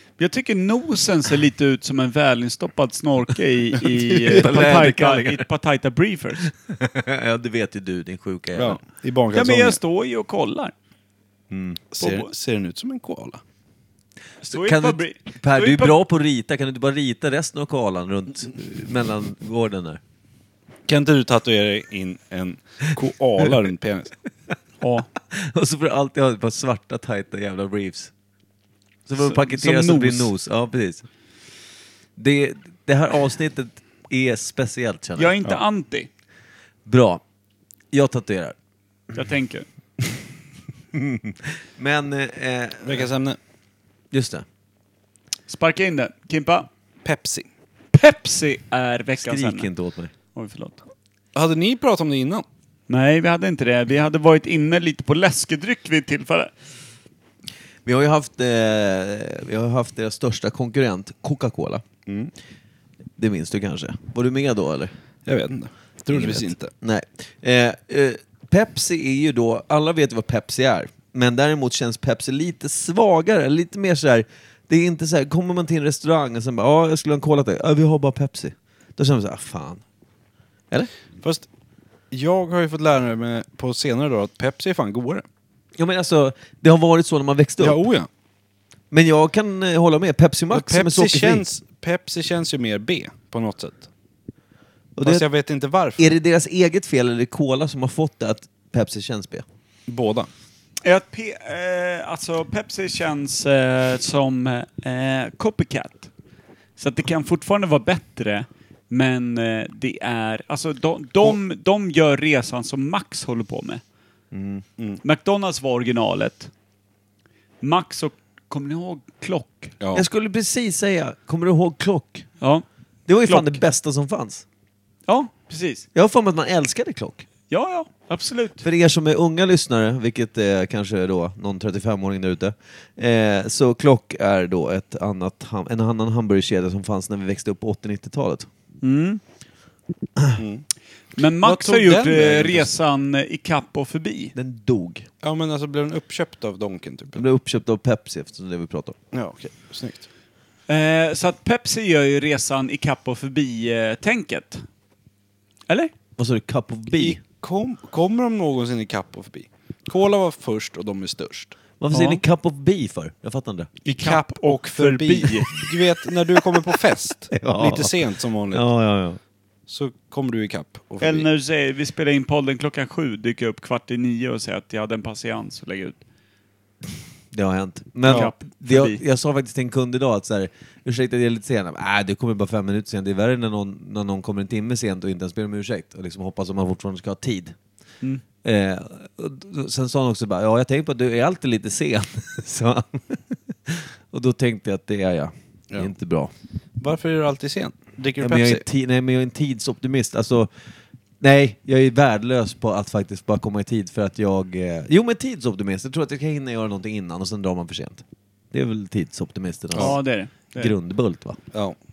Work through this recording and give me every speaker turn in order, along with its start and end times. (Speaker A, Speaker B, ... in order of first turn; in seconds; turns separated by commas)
Speaker A: 0.2-6.5, Speaker B: 4.3-5.4, Speaker B: 6.5-8.8, Speaker C: 8.6-9.8, Speaker A: 9.3-10.7, Speaker B: 11.5-11.8, Speaker C: 11.9-13.4, Speaker A: 12.0-12.3, Speaker A: 14.4-16.0, Speaker B: 14.5-20.0, Speaker C: 20.9-24.1, Speaker A: 24.8-25.1, Speaker B: 25.3-28.1, Speaker B: 29.1-31.1, Speaker A: 29.2-30.3, Speaker B: 32.2-35.3, Speaker A: 35.2-36.1, Speaker B: 36.9-37.2, Speaker B: 37.9-38.5, Speaker A: 39.1-39.7, Speaker B: 40.9-43.1, Speaker C: 42.8-43.4, Speaker B: 44.1-44.5, Speaker A: 45.5-46.7, Speaker C: 47.0-47.5, Speaker A: 47.9-49.7, Speaker B: 49.2-50.1, Speaker A: 50.3-50.8, Speaker C: 51.4-52.5, Speaker A: 52.9-56.5, Speaker B: 57.9-61.8, Speaker C: 62.1-62.3, Speaker B: 63.2-64.9, Speaker C: 65.3-66.7, Speaker B: 66.1-79.8, Speaker C: 81.2-81.5, Speaker C: 82.1-85.3, Speaker B: 85.8-87.8, Speaker C: 87.6-88.1, Speaker B: 88.9-91.4, Speaker C: 90.5-93.9, Speaker B: 95.0-95.3, Speaker C: 95.0-96.1, Speaker B: 96.0-99.5, Speaker C: 99.9-100.3, Speaker A: 100.8-106.1, Speaker A: 106.8-113.8, Speaker B: 114.3-114.6, Speaker A: 115.0-116.5, Speaker A: 117.6-119.7, Speaker C: 119.8-120.1, Speaker B: 119.9-122.3, Speaker B: 123.1-124.5, Speaker A: 123.2-123.5, Speaker A: 125.1-125.8, Speaker B: 126.0-127.3, Speaker A: 127.5-128.6, Speaker B: 128.6-138.5, Speaker A: 138.8-139.2, Speaker C: 140.4-140.7, Speaker A: 141.2-144.3, Speaker C: 141.4-142.7, Speaker B: 144.3-145.1, Speaker C: 145.2-147.2, Speaker B: 147.1-149.0, Speaker C: 149.1-150.1, Speaker A: 150.7-154.7, Speaker B: 156.2-157.2, Speaker C: 156.9-161.6, Speaker B: 161.8-163.7, Speaker A: 161.9-162.2, Speaker C: 163.8-168.7, Speaker A: 163.9-165.5, Speaker B: 167.3-167.9, Speaker B: 168.5-169.2, Speaker C: 169.7-171.3, Speaker A: 171.0-176.0, Speaker B: 177.3-187.6, Speaker A: 178.1-179.0, Speaker B: 188.4-196.3, Speaker C: 196.8-198.6, Speaker B: 198.2-200.5, Speaker B: 201.2-211.4, Speaker A: 209.8-210.7